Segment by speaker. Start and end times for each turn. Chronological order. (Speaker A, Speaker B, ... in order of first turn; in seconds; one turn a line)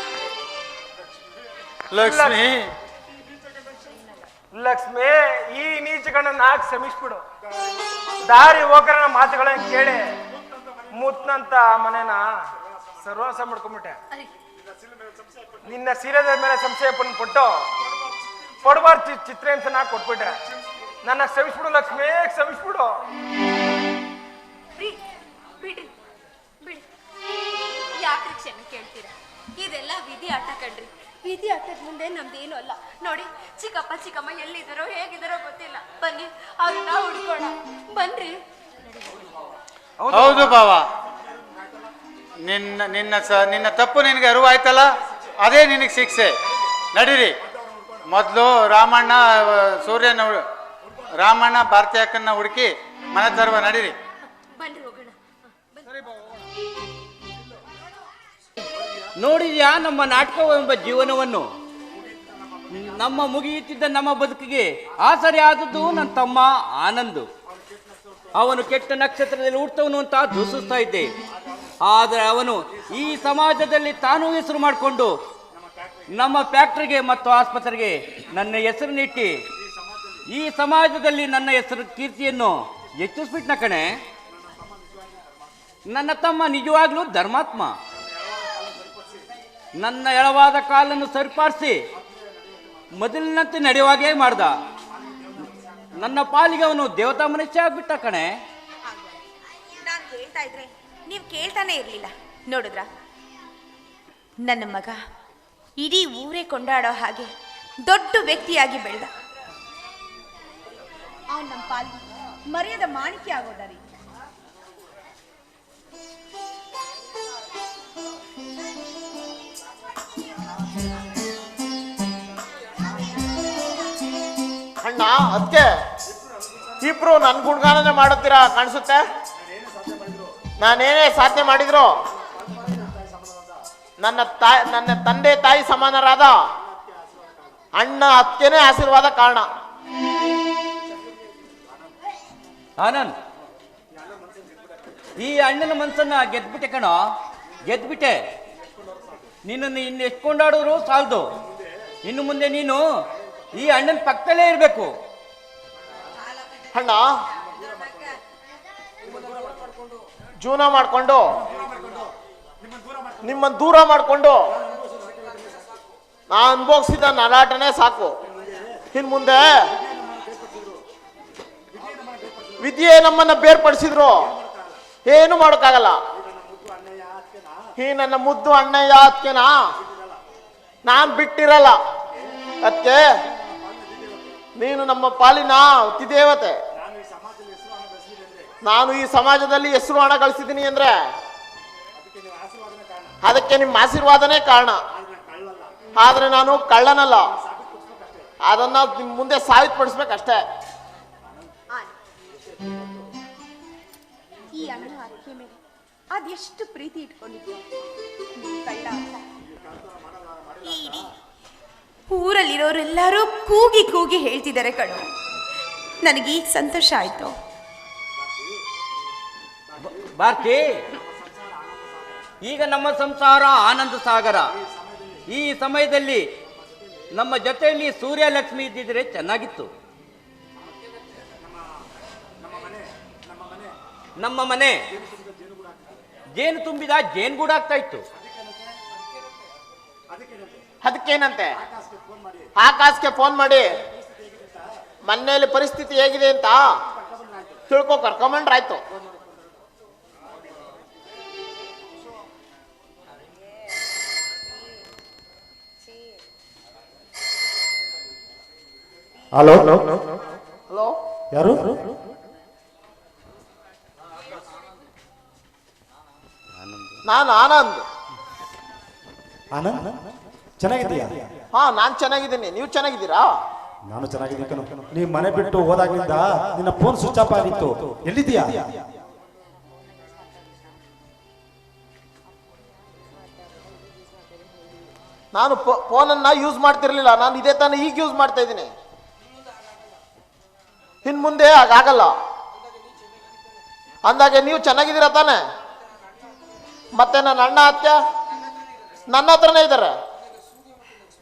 Speaker A: 1.9-2.7
Speaker B: 2.0-2.4
Speaker B: 4.5-7.2
Speaker C: 7.7-8.1
Speaker B: 8.2-10.2
Speaker B: 10.9-12.3
Speaker B: 13.0-14.0
Speaker C: 14.9-15.6
Speaker B: 15.6-17.7
Speaker B: 18.6-20.4
Speaker B: 21.0-22.9
Speaker D: 25.6-25.9
Speaker D: 27.9-38.4
Speaker B: 40.0-40.6
Speaker A: 40.1-40.9
Speaker A: 42.4-46.4
Speaker A: 46.9-47.4
Speaker A: 48.0-50.4
Speaker A: 51.1-54.0
Speaker D: 54.5-55.1
Speaker E: 59.1-61.5
Speaker C: 62.0-62.2
Speaker E: 62.7-67.3
Speaker E: 68.3-71.1
Speaker E: 71.8-75.2
Speaker C: 75.8-76.1
Speaker E: 76.1-79.4
Speaker E: 80.3-84.0
Speaker C: 84.4-85.3
Speaker E: 85.9-87.8
Speaker C: 88.2-89.2
Speaker E: 89.8-91.8
Speaker E: 92.9-94.5
Speaker E: 96.0-98.3
Speaker F: 98.9-99.2
Speaker F: 99.7-102.9
Speaker F: 104.4-105.0
Speaker F: 105.8-107.3
Speaker F: 107.8-109.1
Speaker F: 111.3-112.0
Speaker F: 112.5-113.8
Speaker G: 124.8-125.7
Speaker G: 126.8-129.0
Speaker C: 129.4-130.3
Speaker G: 130.6-131.9
Speaker C: 132.4-133.6
Speaker G: 134.0-136.4
Speaker C: 136.6-137.6
Speaker G: 137.7-139.5
Speaker E: 142.8-143.1
Speaker C: 144.0-144.7
Speaker E: 145.2-147.0
Speaker E: 147.6-148.2
Speaker E: 149.4-151.3
Speaker E: 152.0-152.8
Speaker E: 153.5-154.9
Speaker G: 156.7-157.1
Speaker G: 160.4-161.2
Speaker C: 161.5-162.1
Speaker C: 162.7-163.3
Speaker G: 163.2-164.5
Speaker C: 164.7-165.4
Speaker G: 166.3-168.1
Speaker G: 168.9-169.6
Speaker C: 169.8-170.8
Speaker C: 171.7-172.6
Speaker G: 172.6-174.3
Speaker C: 174.2-174.8
Speaker G: 175.0-176.0
Speaker C: 176.2-177.6
Speaker G: 177.8-179.6
Speaker G: 180.8-181.8
Speaker G: 182.6-183.1
Speaker C: 183.3-184.4
Speaker G: 184.6-186.6
Speaker C: 186.8-188.5
Speaker G: 188.6-190.9
Speaker C: 192.0-193.1
Speaker G: 193.2-194.8
Speaker C: 195.0-195.7
Speaker G: 196.0-197.3
Speaker C: 197.3-198.3
Speaker G: 198.4-200.4
Speaker F: 204.6-205.6
Speaker F: 206.1-207.6
Speaker F: 208.3-209.2
Speaker C: 210.0-210.6
Speaker F: 210.6-211.1
Speaker F: 212.1-215.1
Speaker F: 216.0-217.3
Speaker E: 219.8-220.8
Speaker C: 221.2-222.2
Speaker E: 222.4-224.5
Speaker C: 224.7-225.2
Speaker E: 225.3-226.3
Speaker E: 227.1-229.7
Speaker C: 232.4-233.7
Speaker E: 234.2-234.8
Speaker C: 234.9-236.0
Speaker E: 236.3-238.0
Speaker C: 238.2-238.5
Speaker C: 240.1-240.6
Speaker G: 240.8-241.6
Speaker C: 241.6-242.5
Speaker G: 242.6-243.7
Speaker C: 243.9-244.6
Speaker G: 245.0-246.7
Speaker C: 247.0-247.6
Speaker G: 247.7-248.8
Speaker C: 259.3-259.9
Speaker G: 260.7-260.9
Speaker C: 261.3-261.8
Speaker G: 267.0-267.8
Speaker C: 269.5-270.0
Speaker C: 270.6-271.2
Speaker G: 271.5-273.3
Speaker C: 273.9-278.6
Speaker G: 285.3-288.7
Speaker G: 291.0-292.1
Speaker G: 294.0-295.4
Speaker G: 296.9-298.0
Speaker G: 299.1-299.9